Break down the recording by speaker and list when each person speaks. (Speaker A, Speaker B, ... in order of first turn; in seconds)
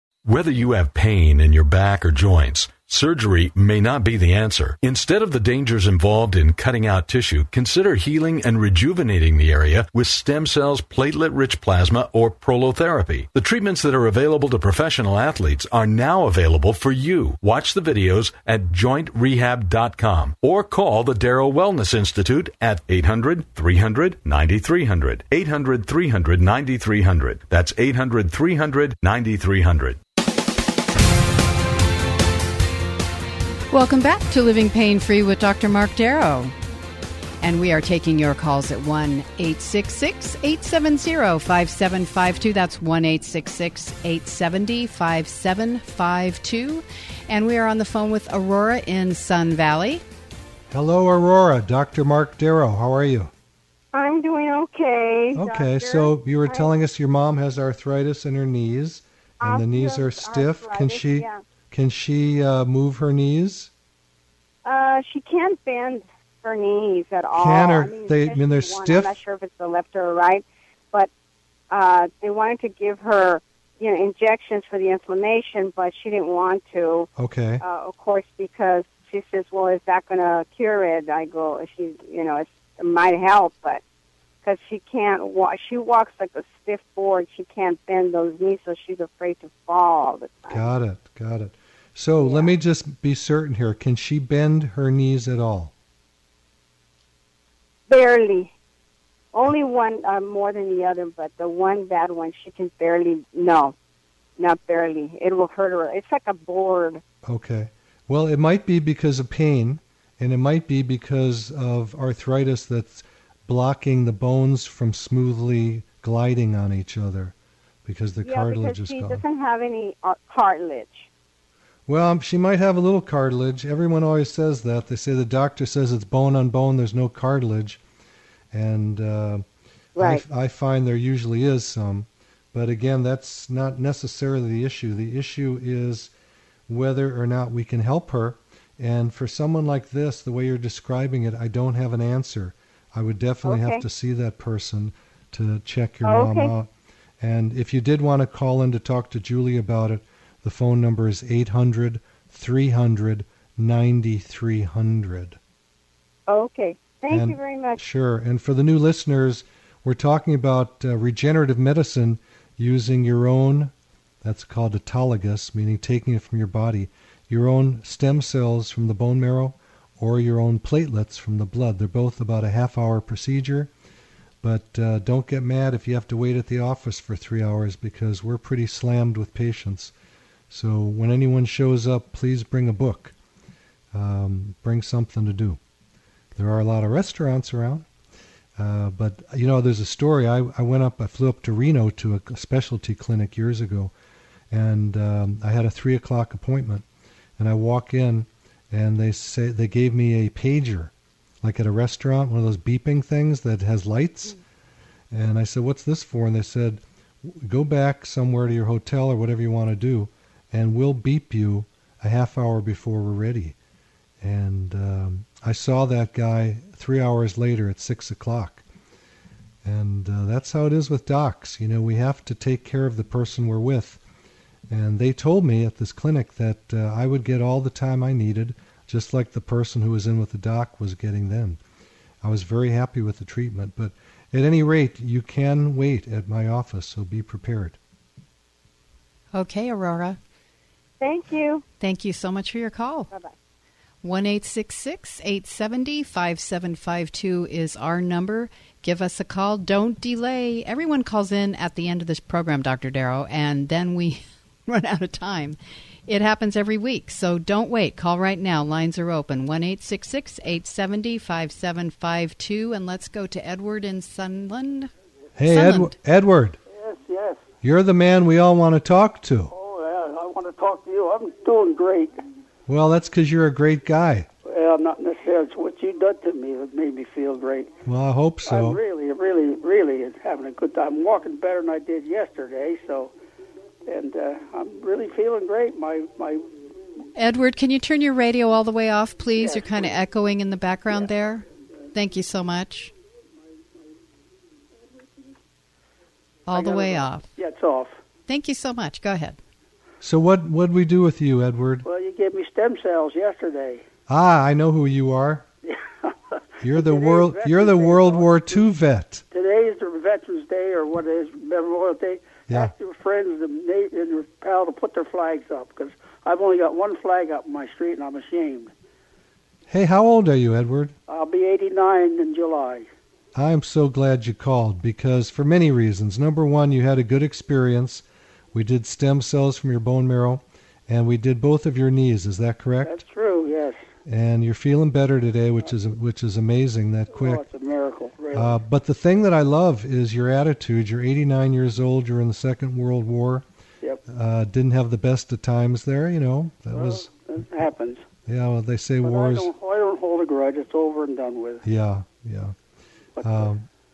Speaker A: 0.2-30.0
Speaker B: 33.7-36.5, 37.4-50.0, 239.3-240.2, 241.8-243.1, 244.0-255.6, 256.1-264.9, 265.5-265.9, 287.2-292.9, 296.5-297.3, 298.3-299.4
Speaker C: 50.7-53.3, 55.3-63.7, 67.3-69.1, 77.2-77.6, 90.5-95.7, 107.3-119.2, 121.9-127.8, 128.5-129.4, 130.0-136.1, 136.7-146.7, 147.2-155.4, 157.1-173.7, 174.4-179.9, 180.5-183.2, 183.9-185.6, 186.4-187.9, 188.6-193.9, 194.5-196.8, 197.4-204.4, 205.1-213.6, 214.2-218.6, 219.6-224.0, 224.7-231.6, 232.2-237.8, 265.4-266.6, 267.6-269.5, 272.7-274.3, 277.9-278.8, 300.0-301.9, 304.1-305.5, 306.6-309.2, 319.7-320.9, 323.4-333.0, 334.1-337.4, 338.3-343.5, 344.1-347.1, 348.3-349.5, 351.6-352.6, 353.2-353.7
Speaker D: 53.9-56.7, 59.4-61.4, 64.7-71.1, 71.7-77.1, 77.6-83.8, 84.4-90.7, 92.2-92.5, 97.9-98.5, 99.3-103.8, 104.4-107.0, 118.2-121.1, 130.0-130.2, 143.4-143.8, 146.1-146.5, 156.3-157.8, 241.0-241.6
Speaker E: 266.7-267.4, 269.5-272.1, 274.5-277.7, 278.5-283.1, 283.9-286.4, 289.4-289.9, 296.5-298.0, 301.9-303.8, 305.7-308.6, 309.3-318.7, 321.1-322.9, 332.8-333.8, 337.1-338.6, 346.7-348.0, 349.0-351.6, 353.2-353.5